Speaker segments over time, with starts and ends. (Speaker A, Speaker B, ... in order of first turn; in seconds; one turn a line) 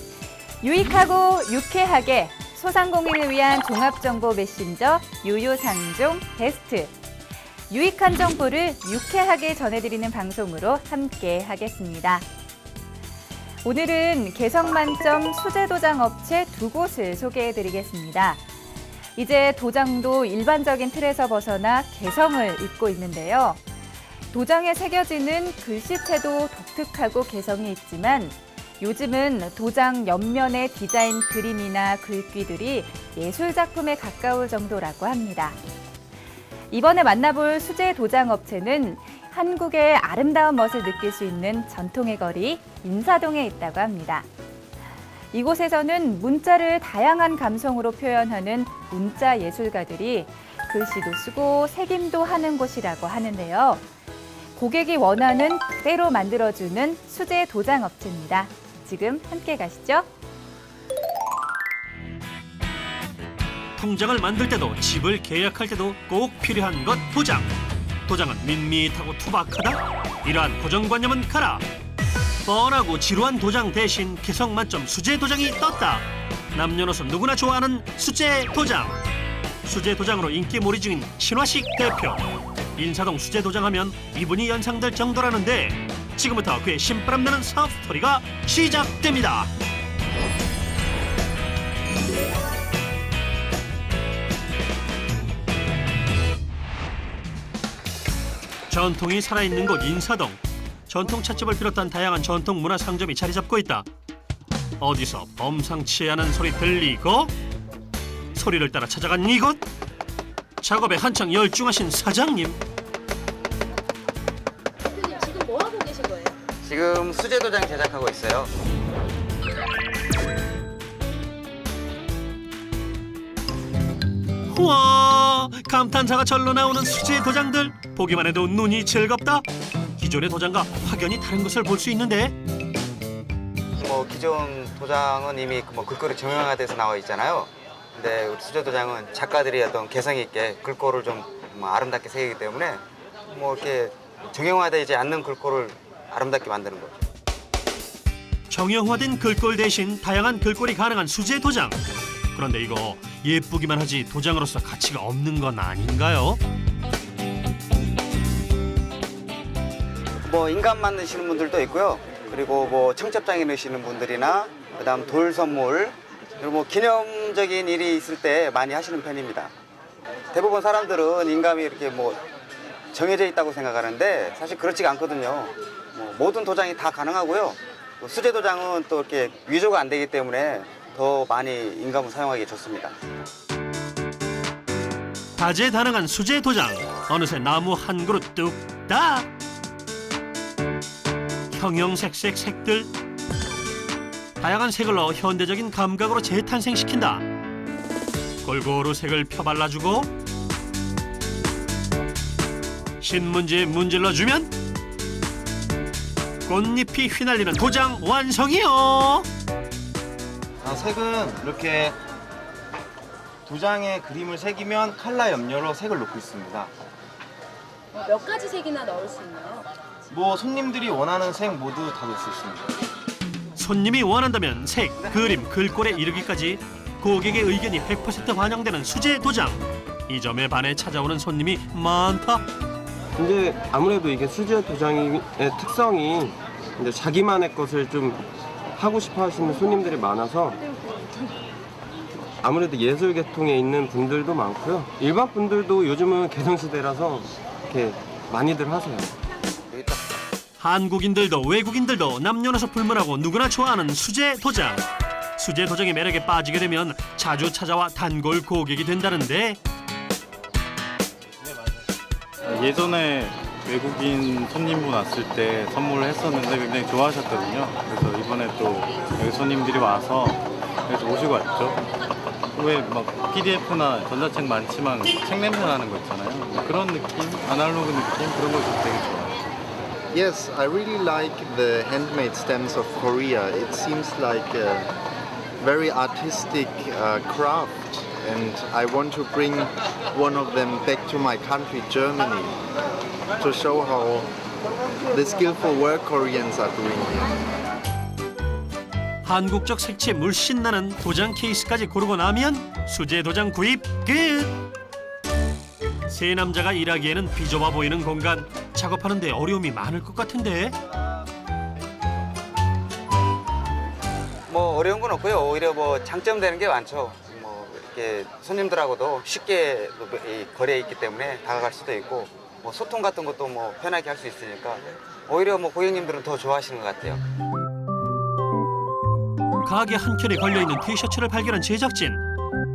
Speaker A: 0.6-6.9
Speaker A: 7.7-12.2
Speaker A: 13.6-18.4
Speaker A: 19.1-23.6
Speaker A: 24.3-35.6
Speaker A: 36.7-44.2
Speaker A: 45.3-53.8
Speaker A: 54.5-60.1
Speaker B: 63.8-67.5
Speaker B: 68.1-71.6
Speaker B: 72.4-79.0
Speaker B: 79.6-82.2
Speaker B: 82.8-89.5
Speaker B: 98.7-103.9
Speaker B: 104.8-107.3
Speaker B: 108.3-109.6
Speaker B: 110.6-112.6
Speaker C: 114.9-116.4
Speaker D: 116.6-118.5
Speaker B: 124.5-129.4
Speaker B: 130.0-132.3
Speaker D: 133.8-147.0
Speaker B: 148.5-151.8
Speaker B: 152.3-156.4
Speaker D: 160.2-169.5
Speaker D: 170.3-172.2
Speaker D: 172.9-182.9
Speaker B: 185.4-189.3
Speaker B: 191.5-192.9
Speaker B: 194.4-197.2
Speaker B: 198.4-200.1
Speaker B: 203.0-204.5
Speaker B: 206.5-209.3
Speaker E: 210.6-211.9
Speaker E: 213.4-216.7
Speaker C: 217.9-219.7
Speaker E: 220.1-222.7
Speaker B: 223.6-232.4
Speaker F: 233.2-240.6
Speaker F: 242.4-249.1
Speaker D: 249.7-250.0
Speaker B: 250.6-254.8
Speaker B: 255.4-259.6
Speaker G: 262.5-271.9
Speaker G: 272.5-279.4
Speaker H: 280.1-284.9
Speaker H: 285.6-292.6
Speaker H: 293.4-294.3
Speaker H: 295.1-297.3
Speaker B: 299.2-304.5
Speaker B: 306.1-310.8
Speaker D: 314.5-327.2
Speaker B: 329.6-332.2